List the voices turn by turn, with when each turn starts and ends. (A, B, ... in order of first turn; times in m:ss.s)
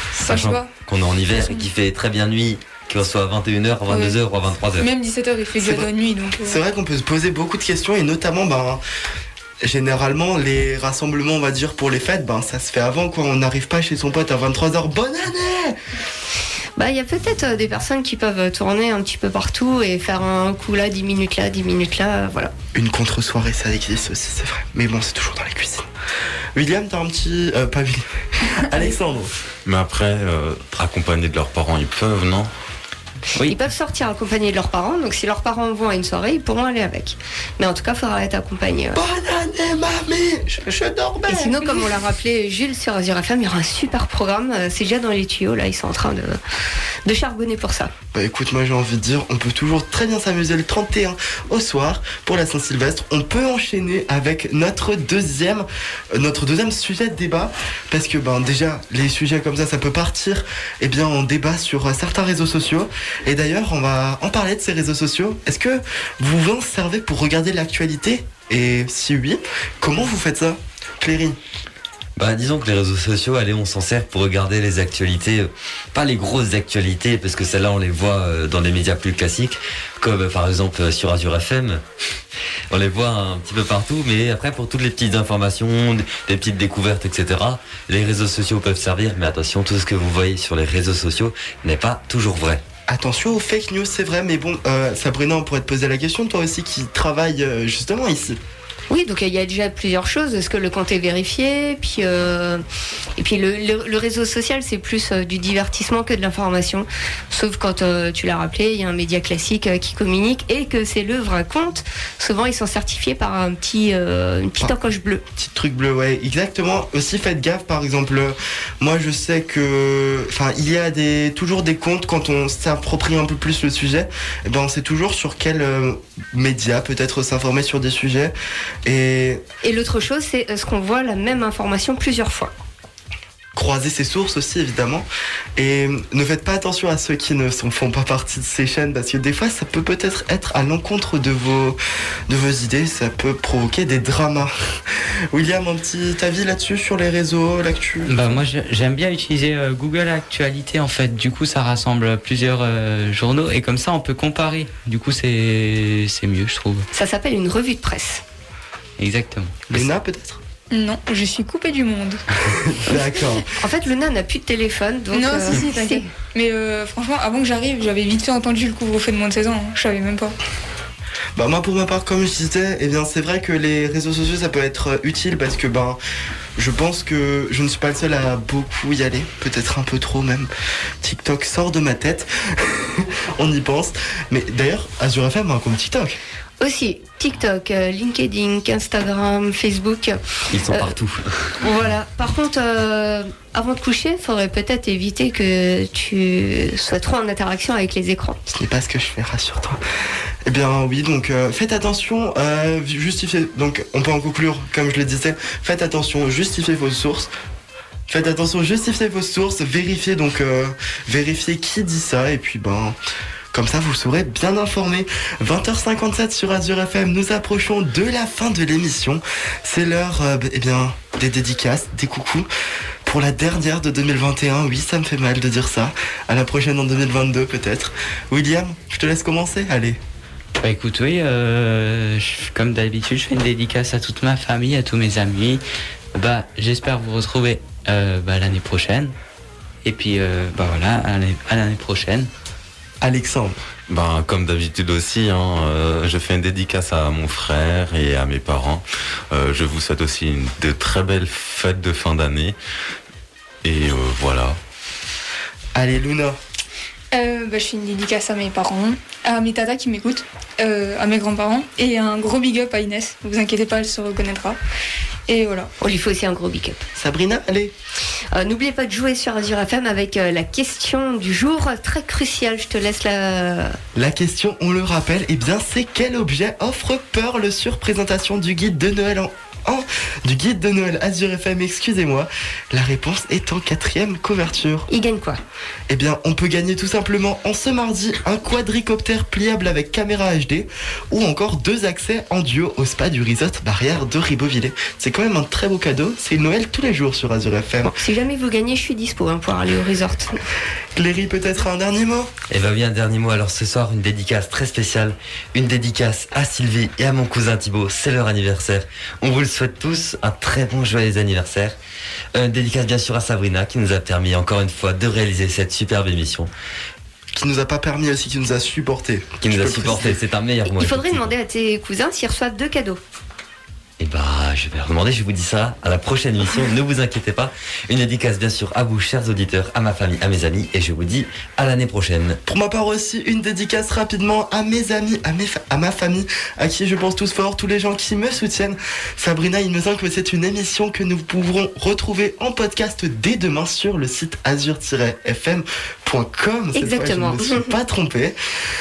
0:00.1-0:04.9 A
0:00.2-0:00.7 B
0:01.3-0:01.7 B
0:03.9-0:04.2 B
0:04.8-0:06.6 B
0:05.6-0:08.8 C
0:09.6-0:15.8 C
0:16.8-0:22.5 D
0:22.7-0:25.9 C
0:26.5-0:29.3 C
0:29.6-0:32.5 E
0:33.4-0:39.0 D
0:38.9-0:41.7 C
0:41.3-0:46.4 D
0:47.0-0:47.9 D
0:48.1-1:11.4 C
1:12.2-1:21.8 A
1:22.7-1:32.6 A
1:32.9-1:38.4 C
1:38.9-1:42.6 D
1:43.2-1:55.2 D
1:55.4-2:08.3 C
2:08.8-2:09.4 C
2:09.6-2:12.5 D
2:13.5-2:28.4 C
2:28.0-2:36.9 F
2:36.9-2:38.2 D
2:39.0-2:39.7 F
2:39.7-2:40.4 C
2:40.7-2:42.7 B
2:42.8-2:43.5 C
2:43.6-2:46.1 D
2:45.1-2:50.3 B
2:51.4-2:56.0 C
2:56.6-3:00.5 C
3:01.0-3:06.2 C
3:06.6-3:10.9 D
3:10.5-3:11.6 A
3:11.6-3:18.4 D
3:18.5-3:19.8 C
3:20.4-3:27.3 C
3:28.1-3:33.0 C
3:33.5-3:42.5 C
3:43.0-3:50.0 C
3:50.6-3:55.6 F
3:56.1-3:59.1 F
3:59.8-4:02.3 F
4:03.0-4:03.6 C
4:03.9-4:12.6 E
4:13.6-4:14.6 E
4:15.7-4:16.4 C
4:17.1-4:24.6 B
4:25.3-4:25.7 B
4:25.8-4:26.8 D
4:27.0-4:27.7 C
4:28.3-4:33.8 D
4:33.9-4:44.9 C
4:44.9-4:45.4 D
4:45.9-4:57.9 C
4:57.8-5:00.4 D
5:00.9-5:02.3 C
5:02.5-5:11.8 A
5:12.3-5:16.5 A
5:17.3-5:20.2 C
5:19.4-5:21.3 A
5:20.6-5:23.0 D
5:24.0-5:32.4 A
5:32.4-5:48.4 C
5:46.7-5:47.7 D